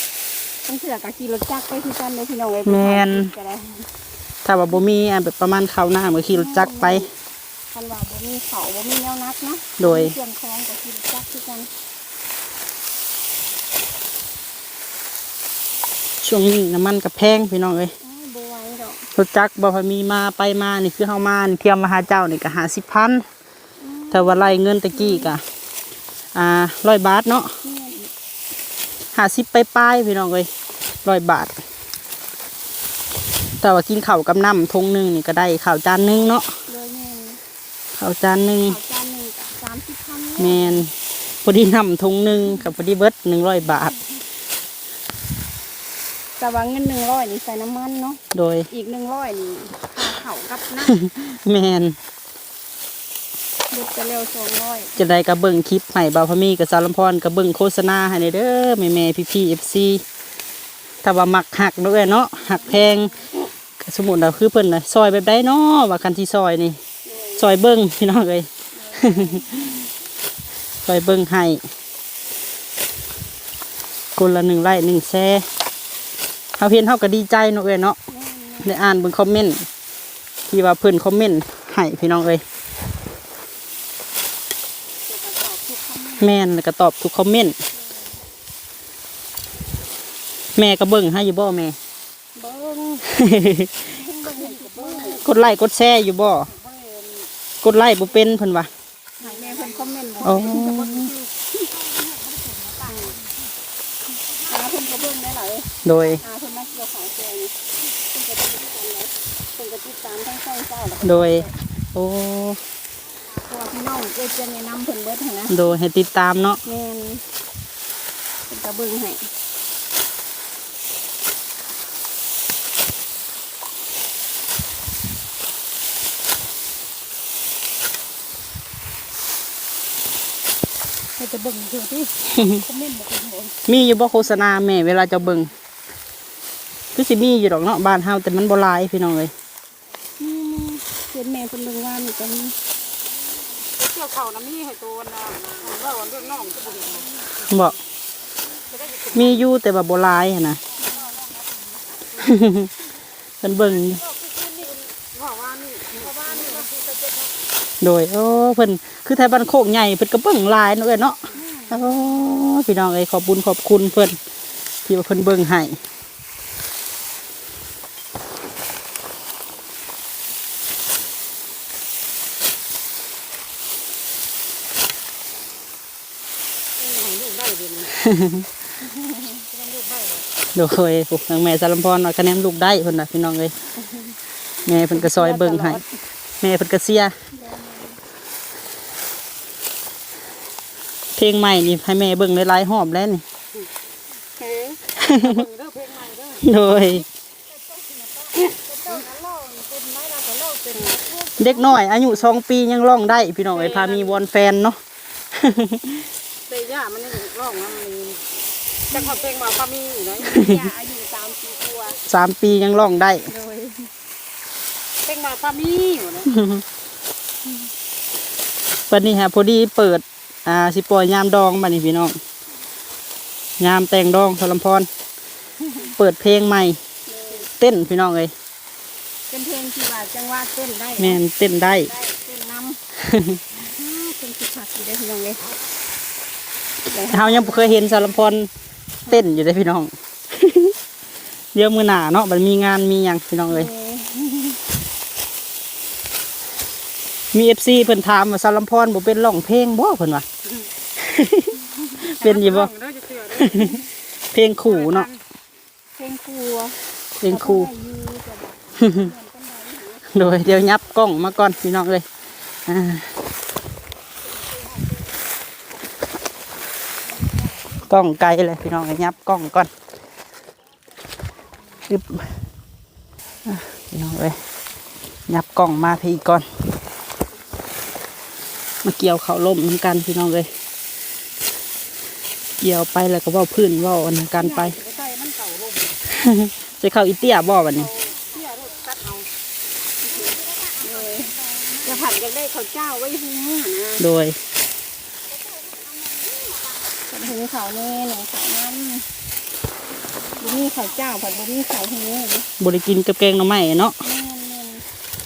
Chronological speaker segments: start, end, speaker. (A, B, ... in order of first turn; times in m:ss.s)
0:00.6-0:03.9 A
0:02.6-0:03.3 B
0:04.4-0:07.0 B
0:06.3-0:07.1 A
0:07.7-0:11.7 A
0:09.8-0:10.1 B
0:16.2-0:17.9 B
0:18.0-0:19.1 A
0:19.1-0:23.2 B
0:23.8-0:25.4 A
0:24.1-0:25.4 B
0:26.3-0:27.6 B
0:27.6-0:28.1 A
0:29.1-0:30.5 B
0:31.0-0:31.5 B
0:33.6-0:36.5 B
0:36.7-0:37.4 A
0:37.9-0:38.8 B
0:38.6-0:40.8 A
0:40.4-0:40.9 B
0:41.4-0:43.9 B
0:46.4-0:51.0 A
0:48.3-0:48.7 B
0:50.9-0:52.0 B
0:53.7-0:55.0 A
0:55.0-1:00.0 B
1:01.0-1:03.1 B
1:02.4-1:03.3 A
1:03.8-1:06.8 B
1:07.0-1:07.4 A
1:07.4-1:08.5 B
1:08.7-1:09.7 A
1:09.0-1:09.4 B
1:10.8-1:11.6 B
1:14.2-1:15.4 B
1:16.6-1:18.0 B
1:18.1-1:18.8 A
1:18.6-1:19.6 B
1:20.5-1:22.4 B
1:25.1-1:26.4 A
1:26.2-1:27.6 B
1:27.7-1:28.2 A
1:30.5-1:31.7 B
1:32.4-1:33.2 A
1:33.2-1:33.8 B
1:33.8-1:35.2 A
1:34.4-1:35.4 C
1:35.2-1:36.5 B
1:36.5-1:37.3 C
1:37.6-1:38.7 B
1:39.2-1:41.1 A
1:39.2-1:42.9 C
1:40.2-1:41.1 B
1:42.8-1:43.2 A
1:44.5-1:47.5 A
1:45.8-1:46.2 B
1:48.1-1:51.5 A
1:51.0-1:52.6 B
1:53.3-1:55.6 A
1:55.5-1:56.6 B
1:56.6-1:57.2 A
1:58.5-1:59.3 A
2:11.2-2:13.5 C
2:13.7-2:15.5 B
2:16.9-2:19.3 B
2:20.2-2:22.6 A
2:23.7-2:27.6 C
2:27.5-2:27.8 B
2:28.7-2:29.4 C
2:29.1-2:30.6 B
2:30.8-2:31.3 A
2:32.2-2:32.7 B
2:33.4-2:34.0 B
2:33.6-2:37.2 C
2:37.8-2:44.2 B
2:41.3-2:42.3 A
2:44.8-2:45.8 B
2:56.8-2:57.9 C
2:58.0-2:58.4 B
2:58.9-2:59.3 A
2:59.5-3:00.2 C
3:00.5-3:03.5 B
3:04.6-3:05.8 B
3:04.9-3:05.8 A
3:06.4-3:07.1 B
3:07.3-3:08.0 A
3:11.2-3:13.2 B
3:14.4-3:16.5 C
3:15.0-3:15.4 B
3:16.4-3:17.0 B
3:18.3-3:21.1 C
3:21.4-3:24.8 B
3:23.5-3:24.2 C
3:25.3-3:26.1 B
3:26.5-3:28.2 C
3:28.9-3:30.4 C
3:30.2-3:32.0 A
3:30.3-3:30.6 B
3:32.1-3:33.3 B
3:33.3-3:33.9 A
3:35.0-3:36.3 C
3:36.3-3:36.6 B
3:38.9-3:42.2 B
3:43.6-3:44.9 B
3:46.0-3:46.8 B
3:47.0-3:47.5 A
3:47.5-3:48.3 B
3:49.3-3:51.2 A
3:51.0-3:51.9 B
3:51.8-3:52.8 A
3:53.0-3:53.4 B
3:53.6-3:55.4 A
3:56.8-3:58.4 A
3:57.1-3:58.5 B
3:59.1-4:00.7 B
4:01.5-4:03.7 B
4:03.5-4:04.6 A
4:07.3-4:10.2 B
4:11.0-4:12.7 B
4:12.0-4:13.8 C
4:13.4-4:13.8 B
4:14.3-4:15.1 B
4:14.6-4:15.2 C
4:16.0-4:20.2 A
4:17.2-4:17.7 B
4:18.8-4:19.1 B
4:20.1-4:22.0 B
4:22.6-4:23.1 B
4:27.8-4:29.7 B
4:31.9-4:32.4 B
4:33.4-4:34.4 B
4:35.3-4:36.5 B
4:38.8-4:40.5 B
4:42.6-4:44.8 B
4:44.3-4:46.0 C
4:46.1-4:47.9 B
4:48.2-4:49.3 C
4:50.0-4:54.0 A
4:54.0-4:54.4 B
4:57.0-4:59.1 A
5:00.4-5:02.5 A
5:02.6-5:04.0 B
5:04.0-5:04.8 A